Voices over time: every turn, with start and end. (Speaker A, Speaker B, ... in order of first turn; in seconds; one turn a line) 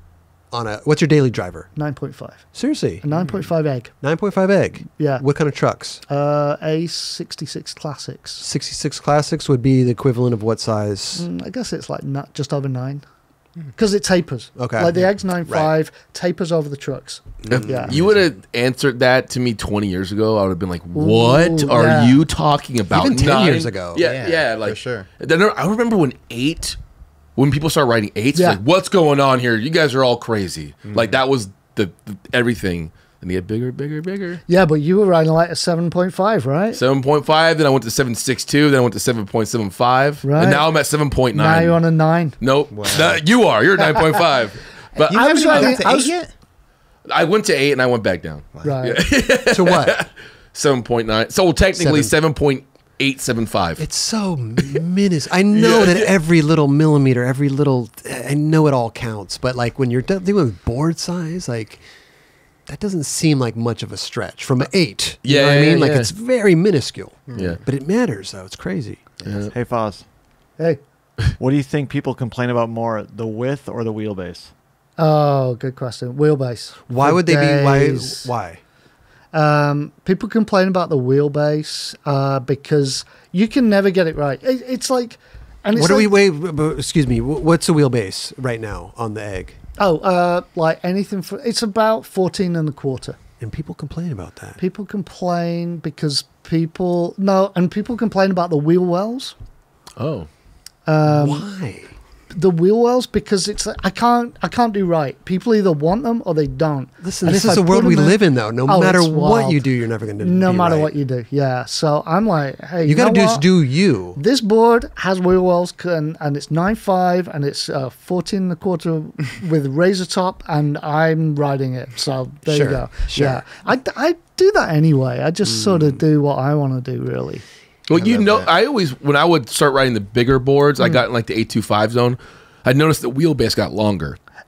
Speaker A: 0.5-1.7
Speaker B: 1.7-4.0
Speaker A: 2.5-3.0
Speaker C: 3.2-3.5
Speaker A: 4.0-6.0
Speaker B: 5.0-5.2
Speaker B: 6.1-8.4
Speaker A: 8.4-11.3
Speaker B: 11.2-13.0
Speaker B: 13.7-18.0
Speaker A: 14.6-15.7
Speaker A: 17.4-18.1
Speaker D: 17.5-26.8
Speaker B: 20.9-22.2
Speaker A: 22.9-24.0
Speaker C: 23.9-25.1
Speaker D: 27.4-34.4
Speaker B: 28.3-28.6
Speaker C: 30.8-31.2
Speaker B: 34.5-36.8
Speaker D: 36.7-41.8
Speaker B: 40.2-40.7
Speaker B: 41.3-42.4
Speaker D: 42.4-45.8
Speaker C: 42.7-43.4
Speaker B: 44.9-46.1
Speaker C: 45.0-46.3
Speaker D: 47.0-53.9
Speaker C: 48.5-48.8
Speaker B: 48.6-49.0
Speaker A: 49.5-50.0
Speaker A: 51.7-52.1
Speaker A: 53.8-61.9
Speaker D: 55.5-56.1
Speaker A: 62.6-69.0
Speaker D: 65.2-66.1
Speaker C: 67.3-67.6
Speaker D: 67.3-67.6
Speaker C: 69.2-69.5
Speaker D: 69.2-69.5
Speaker E: 69.5-70.1
Speaker E: 71.4-74.5
Speaker B: 75.0-78.3
Speaker A: 76.9-78.6
Speaker B: 79.3-86.1
Speaker A: 85.7-89.6
Speaker B: 89.8-93.2
Speaker A: 93.4-94.6
Speaker B: 94.6-99.3
Speaker D: 100.0-100.3
Speaker B: 100.9-101.5
Speaker A: 101.0-101.9
Speaker B: 102.3-113.6
Speaker A: 107.0-110.9
Speaker A: 112.8-114.2
Speaker B: 114.1-127.5
Speaker A: 122.5-123.5
Speaker A: 125.4-126.0
Speaker D: 127.9-134.2
Speaker C: 127.9-128.5